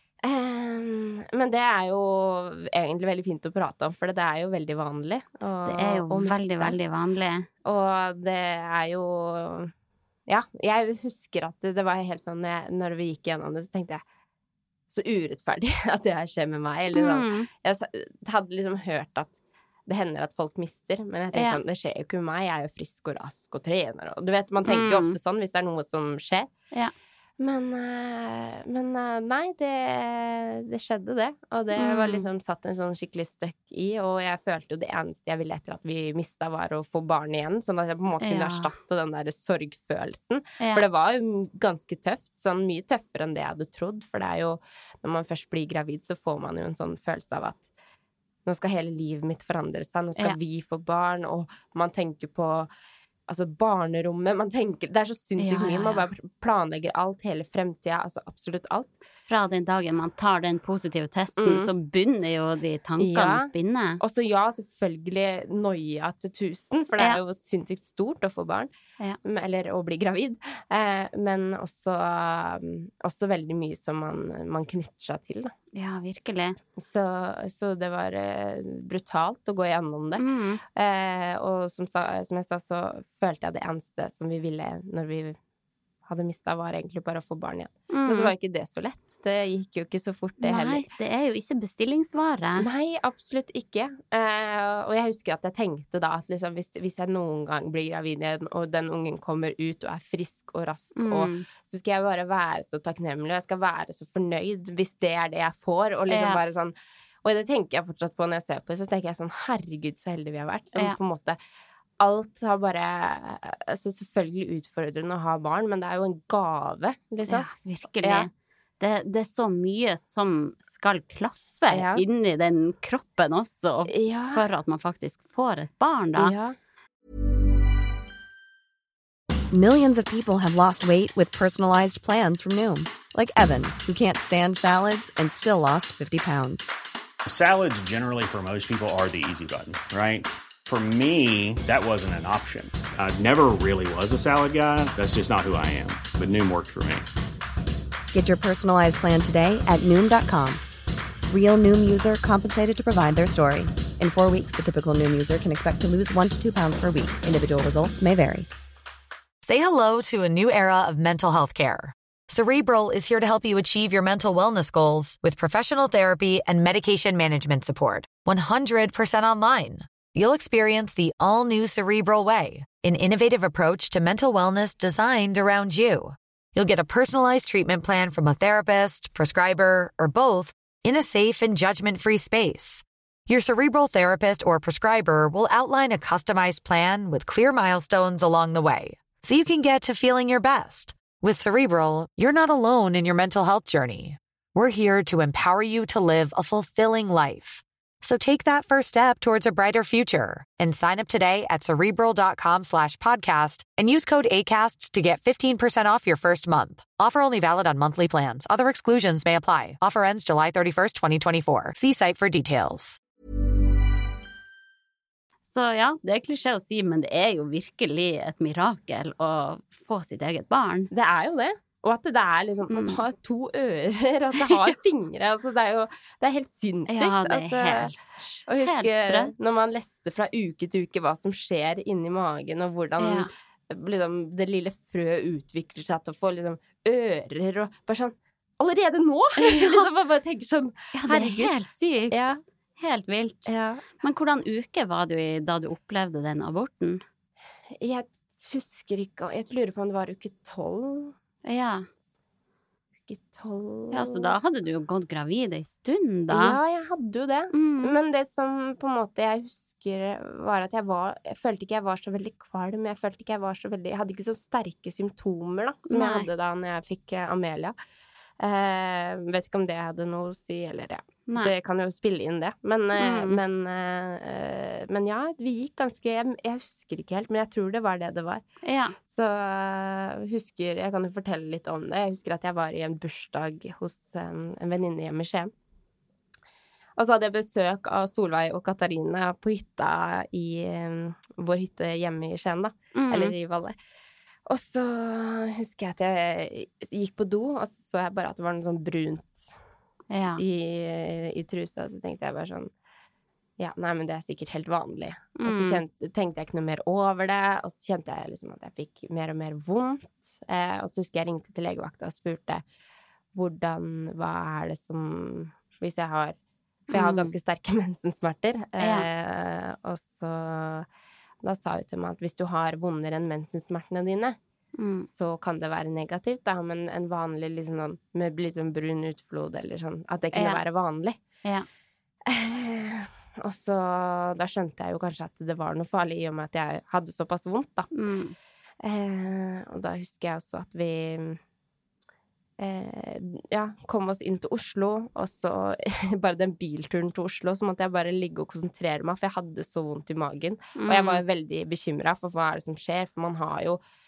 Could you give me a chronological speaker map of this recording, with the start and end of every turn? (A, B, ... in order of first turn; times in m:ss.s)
0:00.2-0:06.8 A
0:05.6-0:07.5 B
0:07.6-0:09.7 A
0:10.3-0:14.0 A
0:14.9-0:26.5 A
0:16.9-0:17.5 B
0:21.3-0:21.6 B
0:24.6-0:25.2 B
0:27.4-0:47.6 A
0:31.7-0:32.3 B
0:38.2-0:38.7 B
0:40.6-0:40.8 B
0:48.4-0:52.7 A
0:53.3-0:59.0 A
0:55.4-0:56.1 B
0:59.3-1:04.0 B
1:01.4-1:01.7 A
1:03.0-1:08.7 A
1:09.2-1:15.5 A
1:15.7-1:16.6 B
1:16.8-1:25.4 A
1:20.2-1:20.6 B
1:26.0-1:30.8 A
1:27.9-1:28.3 B
1:30.4-1:32.7 B
1:32.6-1:51.4 A
1:41.0-1:41.5 B
1:46.1-1:46.4 B
1:52.0-1:57.5 A
1:57.3-2:06.3 B
1:58.0-1:58.3 A
2:01.7-2:02.0 A
2:03.9-2:04.4 A
2:06.2-2:06.6 A
2:09.5-2:16.7 C
2:17.3-2:27.1 D
2:28.1-2:30.6 C
2:31.3-2:38.5 C
2:39.4-3:33.0 E
3:35.5-3:40.9 B
3:40.9-3:47.9 A
3:42.7-3:43.0 B
3:46.9-3:49.4 B
3:48.5-4:01.5 A
3:53.0-3:53.3 B
3:59.4-3:59.9 B
4:01.0-4:03.5 B
4:02.1-4:02.4 A
4:03.5-4:03.8 A
4:04.0-4:07.0 B
4:07.8-4:11.2 A
4:11.4-4:11.8 B
4:13.1-4:14.3 A
4:13.9-4:16.6 B
4:16.3-4:27.8 A
4:17.5-4:18.0 B
4:25.9-4:26.3 B
4:28.4-4:38.4 A
4:33.0-4:33.4 B
4:38.6-4:39.0 B
4:39.0-4:45.5 A
4:47.0-4:53.8 A
4:53.0-4:53.3 B
4:54.5-4:59.5 A
5:00.1-5:00.4 B
5:00.4-5:02.7 A
5:03.6-5:12.6 A
5:05.4-5:05.8 B
5:13.3-5:16.4 A
5:16.9-5:20.9 A
5:16.9-5:17.3 B
5:18.8-5:19.1 B
5:21.4-5:24.4 A
5:24.8-5:25.1 B
5:25.1-5:31.2 A
5:30.3-5:30.6 B
5:32.3-5:37.9 A
5:37.9-5:38.4 B
5:38.8-5:41.4 A
5:42.6-5:53.8 A
5:50.8-5:51.2 B